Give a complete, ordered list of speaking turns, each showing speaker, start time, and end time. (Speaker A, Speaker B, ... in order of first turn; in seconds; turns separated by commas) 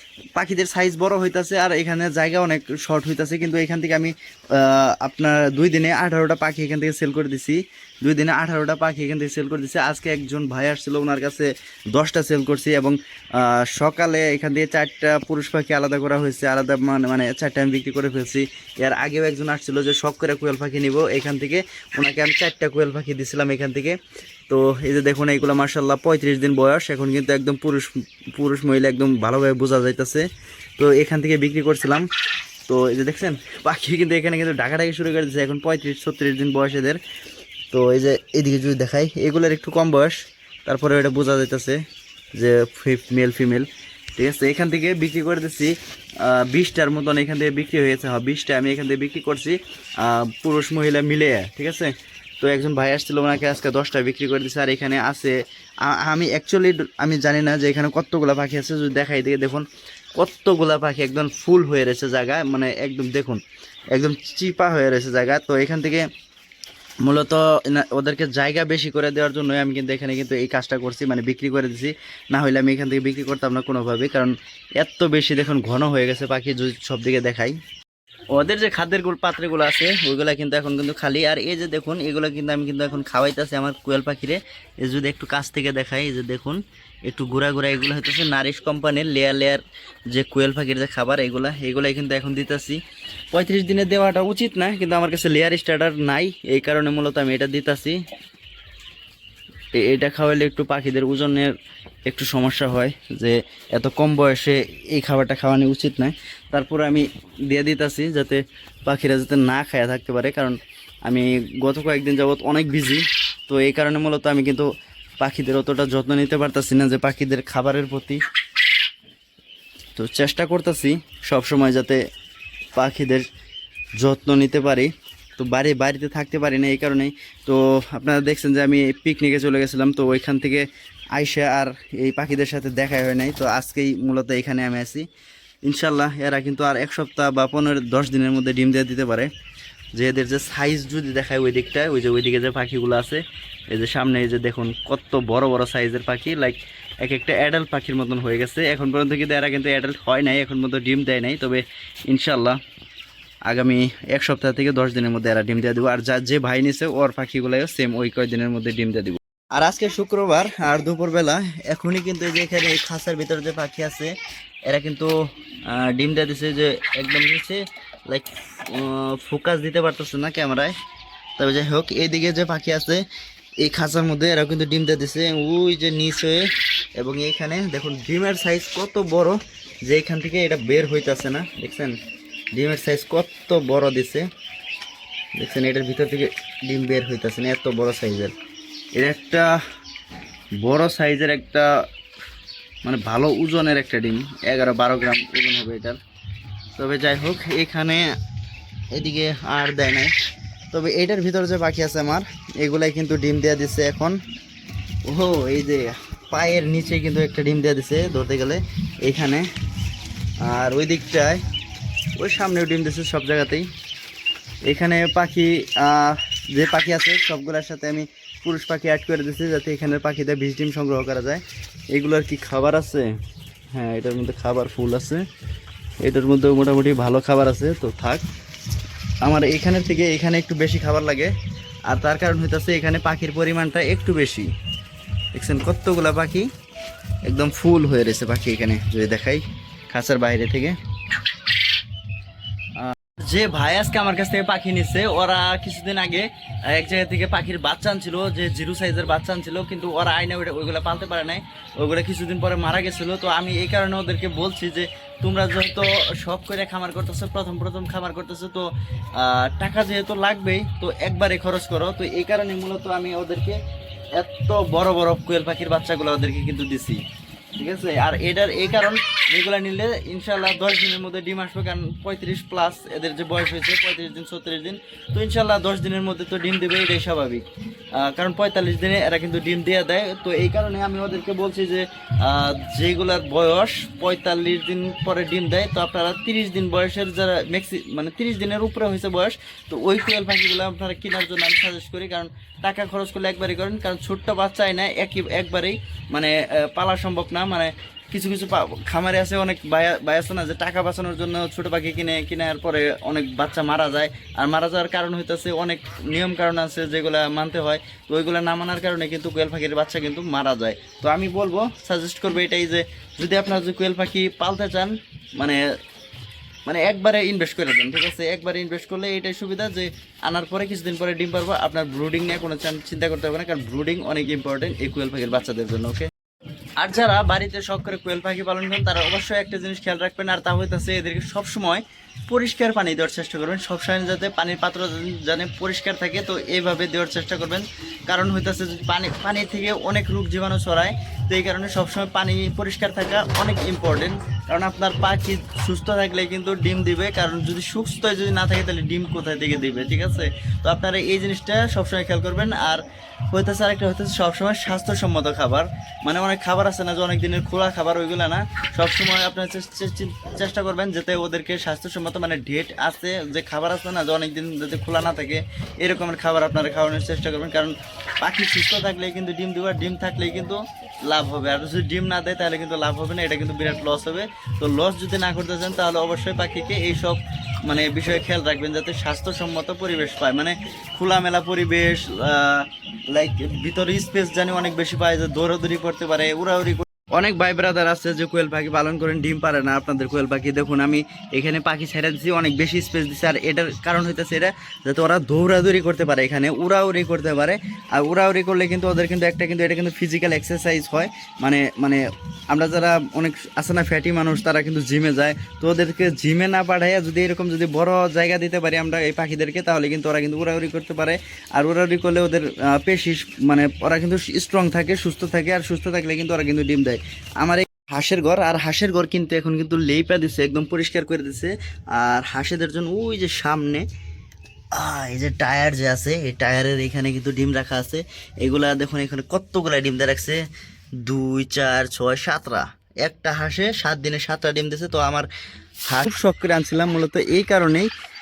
Speaker A: 0.3-23.9, Speaker A: 24.5-30.3, Speaker A: 30.8-32.0, Speaker A: 32.7-37.0, Speaker A: 37.7-41.8, Speaker A: 42.3-63.4, Speaker A: 63.9-66.0, Speaker A: 67.0-77.6, Speaker A: 78.3-92.8, Speaker A: 93.3-98.0, Speaker A: 99.7-101.5, Speaker A: 102.0-114.7, Speaker A: 115.2-118.2, Speaker A: 120.0-122.0, Speaker A: 122.7-123.3, Speaker A: 124.0-135.1, Speaker A: 135.6-139.3, Speaker A: 139.9-152.6, Speaker A: 153.5-164.1, Speaker A: 164.7-165.1, Speaker A: 165.6-170.7, Speaker A: 171.4-173.0, Speaker A: 173.6-182.0, Speaker A: 182.5-184.2, Speaker A: 185.4-188.3, Speaker A: 188.9-189.5, Speaker A: 190.6-191.7, Speaker A: 192.8-196.0, Speaker A: 196.8-198.1, Speaker A: 198.9-200.1, Speaker A: 200.7-204.2, Speaker A: 205.1-209.5, Speaker A: 210.4-211.4, Speaker A: 212.2-213.7, Speaker A: 214.7-223.2, Speaker A: 223.7-225.2, Speaker A: 226.0-228.2, Speaker A: 229.2-231.3, Speaker A: 231.9-234.5, Speaker A: 235.3-236.5, Speaker A: 237.2-240.8, Speaker A: 242.8-263.6, Speaker A: 264.1-267.0, Speaker A: 267.6-315.6, Speaker A: 316.6-326.1, Speaker A: 326.8-423.8, Speaker A: 424.7-430.4, Speaker A: 431.0-435.3, Speaker A: 435.9-437.9